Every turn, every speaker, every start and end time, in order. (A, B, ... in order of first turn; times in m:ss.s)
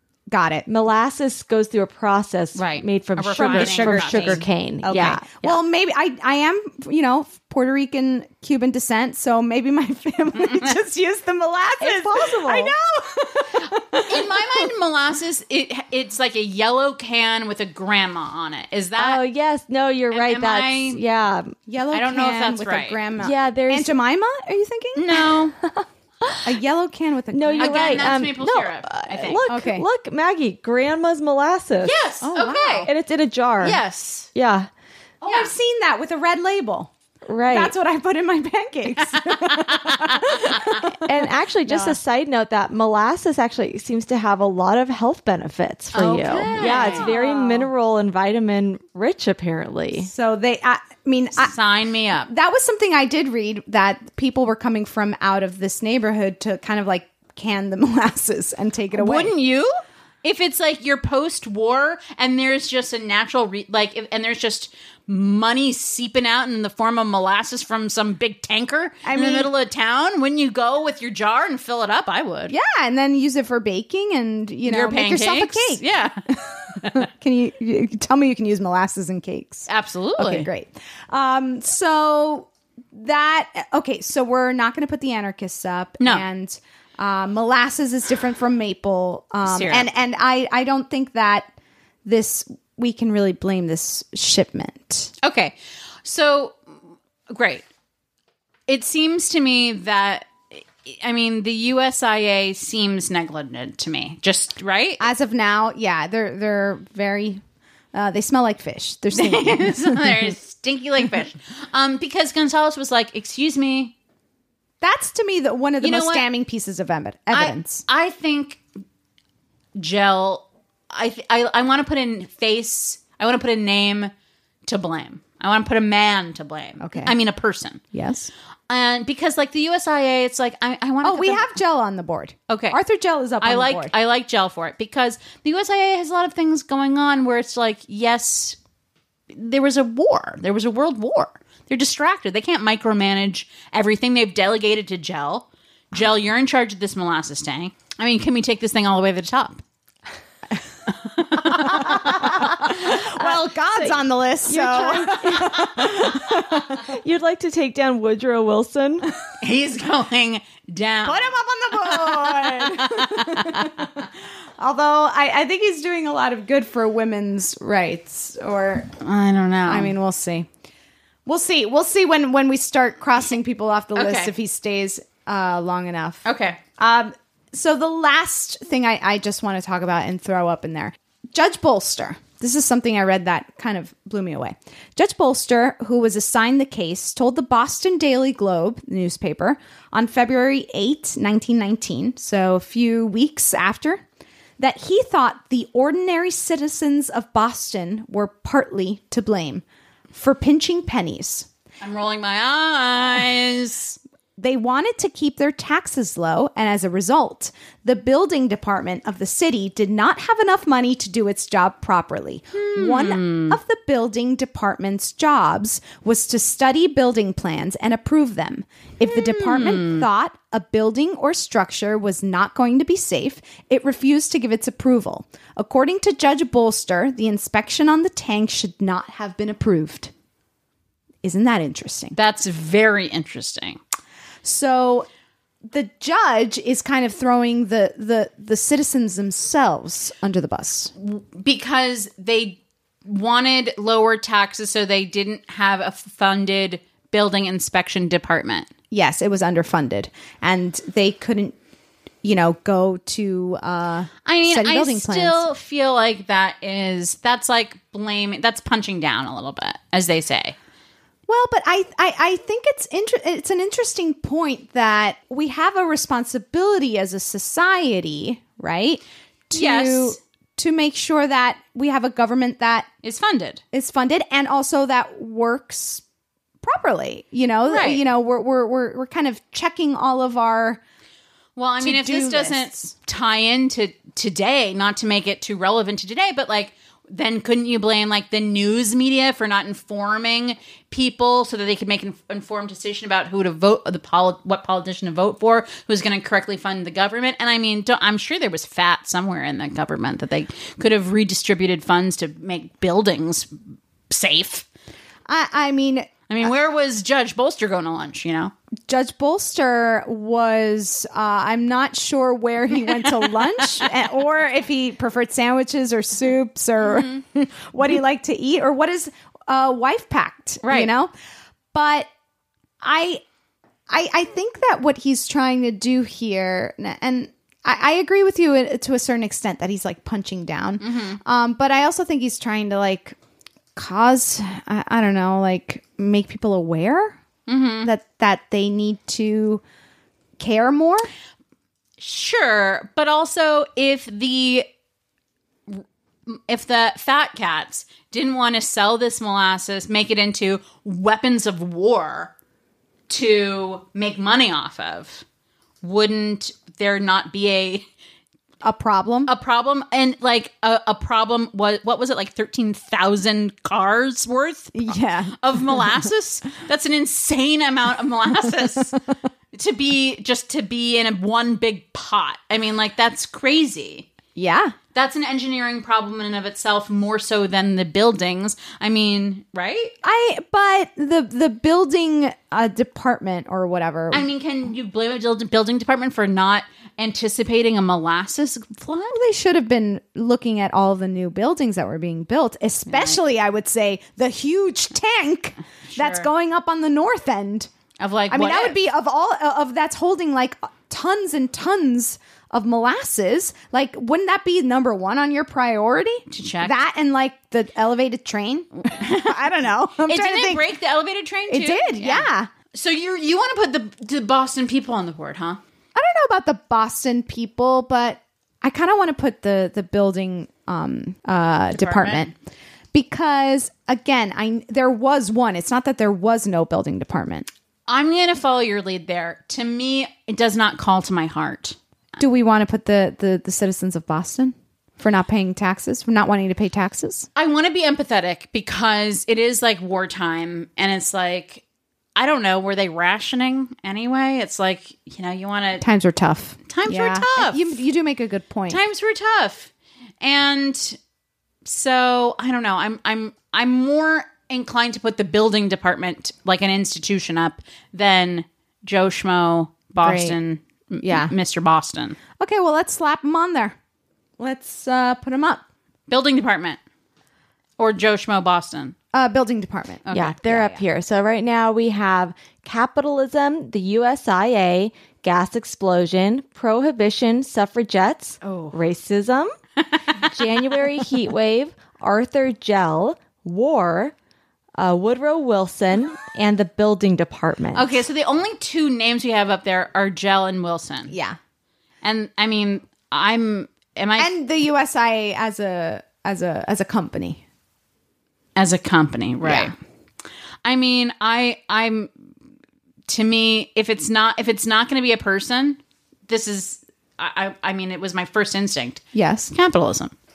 0:00.3-0:00.7 A
0:00.7-0:05.6 B
0:02.6-0:04.5 C
0:03.3-0:14.7 A
0:10.4-0:10.7 C
0:11.8-0:12.7 B
0:14.1-0:19.2 C
0:19.0-0:21.6 B
0:20.1-0:21.0 C
0:21.7-0:25.5 A
0:21.9-0:23.0 C
0:23.2-0:23.9 B
0:25.0-0:25.6 C
0:26.4-0:28.3 A
0:27.3-0:32.0 B
0:27.6-0:29.5 C
0:29.5-0:29.9 A
0:31.8-0:32.9 C
0:32.2-0:32.9 A
0:32.8-0:33.8 B
0:33.6-0:34.3 C
0:34.4-0:34.7 B
0:35.2-0:35.5 C
0:35.2-0:36.9 A
0:37.3-0:37.8 B
0:37.5-0:41.0 A
0:39.1-0:40.8 C
0:41.0-0:50.1 B
0:45.9-0:47.2 C
0:46.5-0:47.6 A
0:50.0-0:51.6 A
0:51.4-0:52.3 C
0:52.3-0:59.4 A
0:58.9-1:12.6 C
1:09.0-1:09.5 A
1:12.5-1:31.5 A
1:14.7-1:16.2 C
1:19.7-1:20.5 C
1:29.4-1:29.9 C
1:32.0-1:35.1 A
1:35.2-1:36.6 C
1:37.3-1:37.6 C
1:38.7-1:45.0 C
1:45.0-1:47.4 A
1:47.9-1:50.3 A
1:49.2-1:54.0 C
1:54.8-1:57.8 A
1:55.8-1:56.3 C
1:57.3-1:58.6 C
1:59.8-2:04.1 C
2:04.6-2:07.8 C
2:06.8-2:07.2 A
2:07.9-2:08.3 A
2:08.7-2:11.5 C
2:11.0-2:13.9 A
2:12.5-2:12.8 C
2:13.4-2:18.6 C
2:19.3-2:29.6 C
2:31.2-2:32.0 C
2:31.4-2:35.8 A
2:33.8-2:39.1 B
2:39.4-2:43.7 C
2:41.0-2:44.1 A
2:44.6-2:48.9 A
2:49.0-2:49.9 C
2:49.7-2:50.5 A
2:51.3-2:56.2 A
2:54.0-2:54.3 C
2:56.2-2:56.6 C
2:56.8-3:14.0 A
3:14.6-3:19.6 A
3:20.1-3:21.5 A
3:21.8-3:24.0 C
3:24.4-3:50.1 A
3:32.6-3:33.6 C
3:39.1-3:40.1 C
3:51.2-3:52.2 A
3:52.2-3:53.8 C
3:54.4-3:55.1 A
3:55.7-4:00.9 A
4:01.0-4:08.7 C
4:08.9-4:11.6 A
4:12.2-4:15.5 A
4:14.3-4:20.6 C
4:21.3-4:32.9 A
4:29.5-4:30.2 C
4:33.0-4:33.6 C
4:33.7-4:36.0 A
4:36.6-4:40.8 A
4:37.7-4:38.0 C
4:41.6-5:03.5 C
4:41.8-4:42.8 A
5:04.1-5:04.7 C
5:05.3-5:06.1 A
5:06.3-5:08.5 C
5:08.9-5:21.1 A
5:12.8-5:13.3 C
5:16.8-5:17.2 C
5:20.6-5:20.9 C
5:21.7-5:22.1 A
5:22.8-5:23.2 A
5:23.9-5:33.2 A
5:30.8-5:31.2 C
5:33.8-5:37.2 A
5:37.5-5:37.9 C
5:37.8-5:39.6 A
5:40.4-5:41.1 A
5:42.0-5:44.7 C
5:45.7-5:52.3 C
5:53.1-5:55.2 C
5:55.8-5:57.9 C
5:58.6-5:59.3 A
5:59.3-6:09.0 C
6:04.8-6:05.9 A
6:09.5-6:14.1 C
6:14.4-6:14.8 A
6:15.0-6:20.0 C
6:20.0-6:24.3 A
6:24.1-6:29.2 C
6:29.1-6:37.7 A
6:32.9-6:33.2 C
6:35.9-6:36.3 C
6:38.0-6:38.8 C
6:38.3-6:50.7 A
6:46.3-6:46.8 C
6:48.9-6:49.4 C
6:50.1-6:55.6 C
6:51.5-6:52.5 A
6:56.0-7:02.3 A
7:01.7-7:02.3 C
7:02.9-7:07.5 A
7:07.9-7:11.8 C
7:12.2-7:17.3 A
7:17.4-7:21.6 C
7:22.2-7:25.8 C
7:25.8-7:28.8 A
7:26.7-7:27.6 C
7:28.7-7:31.0 C
7:31.6-7:42.2 C
7:40.0-7:40.4 A
7:41.0-7:41.4 A
7:42.4-7:43.8 A
7:44.4-7:45.6 A
7:46.1-7:46.8 C
7:47.8-7:49.0 C
7:49.1-7:50.8 A
7:50.1-7:50.4 C
7:50.1-7:59.5 B
7:58.4-7:58.8 C
8:00.2-8:04.1 B
8:04.8-8:08.0 B
8:07.7-8:11.1 C
8:11.1-8:11.4 A
8:12.0-8:14.3 C
8:14.2-8:17.4 A
8:18.6-8:19.8 C
8:19.4-8:19.7 A
8:20.6-8:22.1 C
8:23.1-8:30.1 C
8:29.1-8:29.5 A